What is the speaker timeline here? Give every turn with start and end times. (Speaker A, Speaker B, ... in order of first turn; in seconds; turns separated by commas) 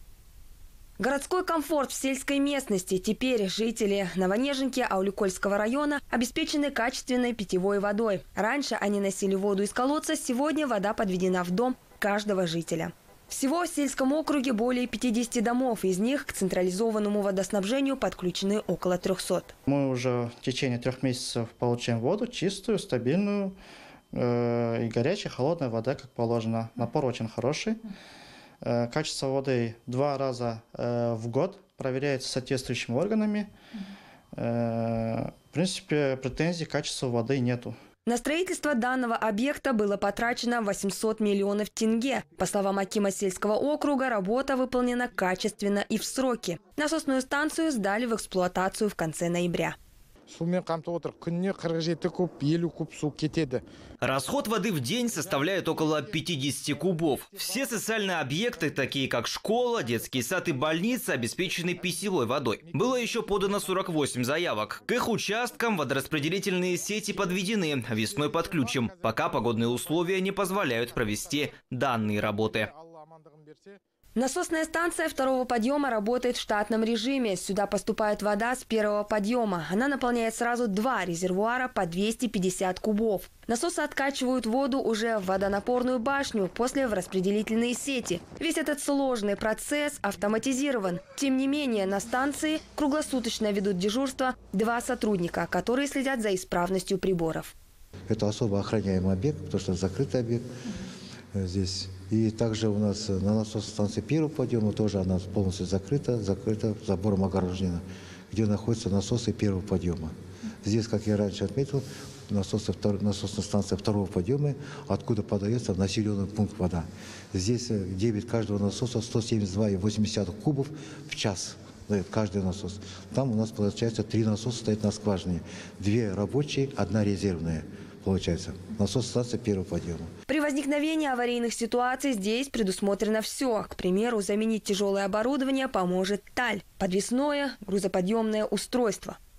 Speaker A: 1.0-19.5, Speaker B: 19.7-23.6, Speaker B: 24.1-27.8, Speaker B: 28.6-33.5, Speaker B: 34.3-37.8, Speaker A: 38.0-49.8, Speaker C: 50.3-53.6, Speaker D: 54.0-72.7, Speaker C: 55.2-56.0, Speaker C: 56.8-58.9, Speaker C: 59.7-61.8, Speaker C: 62.8-63.4, Speaker C: 68.3-71.4, Speaker C: 72.2-73.8, Speaker A: 74.2-97.5, Speaker E: 98.1-100.5, Speaker E: 101.3-130.1, Speaker A: 130.3-139.2